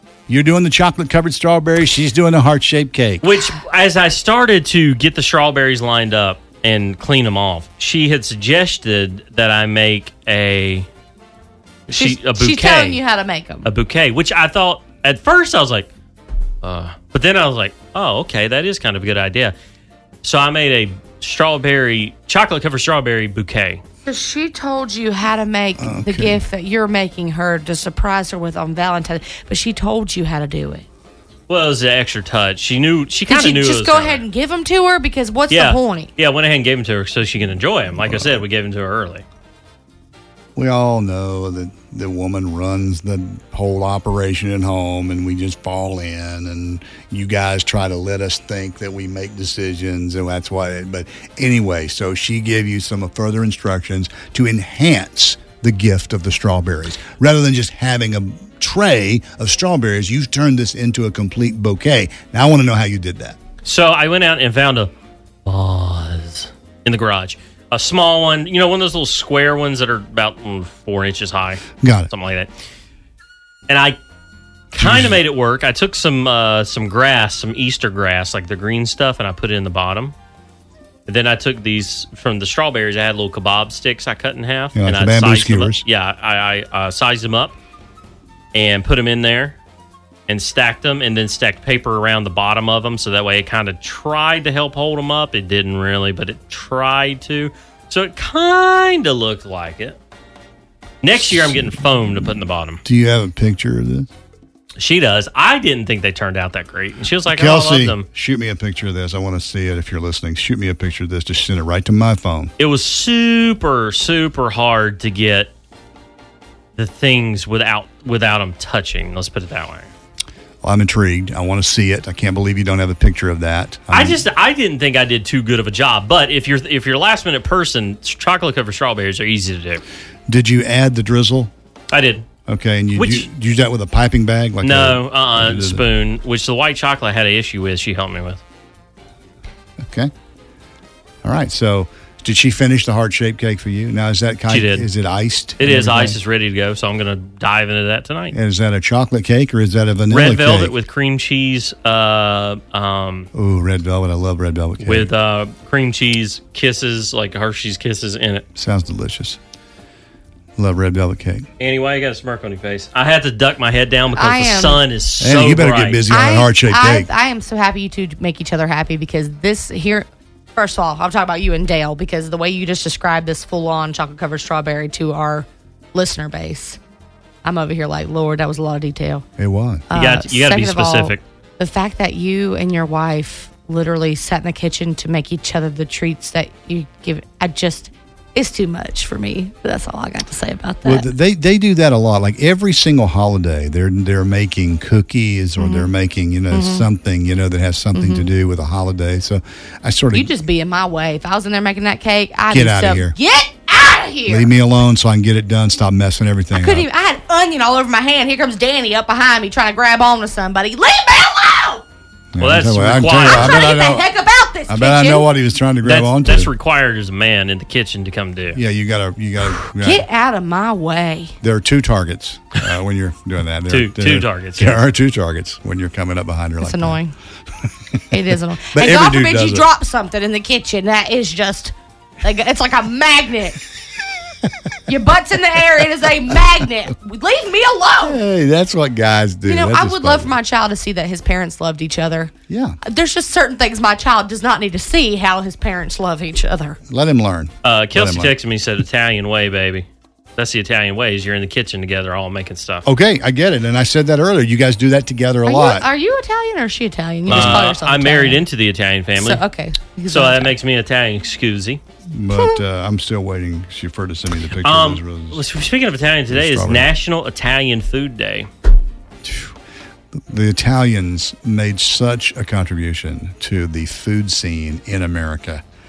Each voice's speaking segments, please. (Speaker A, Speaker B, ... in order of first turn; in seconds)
Speaker A: 0.3-3.2, 25.8-26.4, 38.0-38.4, 40.6-63.4, 71.8-72.1, 74.8-75.2, 84.8-85.8, 101.3-102.3, 102.8-104.1, 107.3-112.5, 120.6-124.2, 130.3-131.5, 132.5-135.8, 139.8-140.1, 141.2-146.2, 148.3-150.7, 153.3-155.1, 158.6-159.4, 160.6-161.5, 165.2-167.1, 179.4-179.8, 190.8-200.3, 202.5-203.2, 204.3-206.9, 212.3-214.1, 214.7-216.5, 218.5-220.0, 221.4-227.0, 228.7-229.7, 238.0-240.4, 242.5-242.8, 246.9-248.3, 252.8-255.9, 257.3-257.7, 262.1-265.4, 266.3-266.9, 269.2-269.6, 270.1-275.6
Speaker B: 3.2-10.9, 11.9-13.0, 13.6-15.9, 16.6-19.5, 20.2-23.8, 31.5-34.2, 35.5-39.2, 63.6-64.9, 65.5-72.5, 73.7-74.0, 74.7-80.1, 81.1-87.5, 88.5-89.6, 90.3-100.0, 101.0-102.8, 104.8-108.0, 112.6-115.5, 116.8-119.9, 123.9-129.8, 131.9-132.2, 132.9-133.3, 134.6-138.4, 144.5-144.9, 145.6-148.4, 150.1-153.3, 154.8-158.4, 161.6-166.0, 179.9-181.2, 212.4-213.7, 215.8-218.6, 223.7-224.8, 247.6-249.9, 250.4-252.8, 257.3-259.4, 260.1-261.8, 264.6-268.5
Speaker C: 11.9-13.7, 24.1-30.9, 33.3-36.1, 164.2-164.8, 166.1-176.8, 177.4-179.3, 179.9-191.1, 195.6-195.9, 196.5-196.8, 197.9-198.3, 200.1-204.5, 206.5-211.8, 213.2-215.3, 219.8-221.3, 226.6-227.1, 228.1-233.6, 234.9-238.2, 239.5-242.3, 242.8-246.8, 255.4-258.4, 259.2-260.6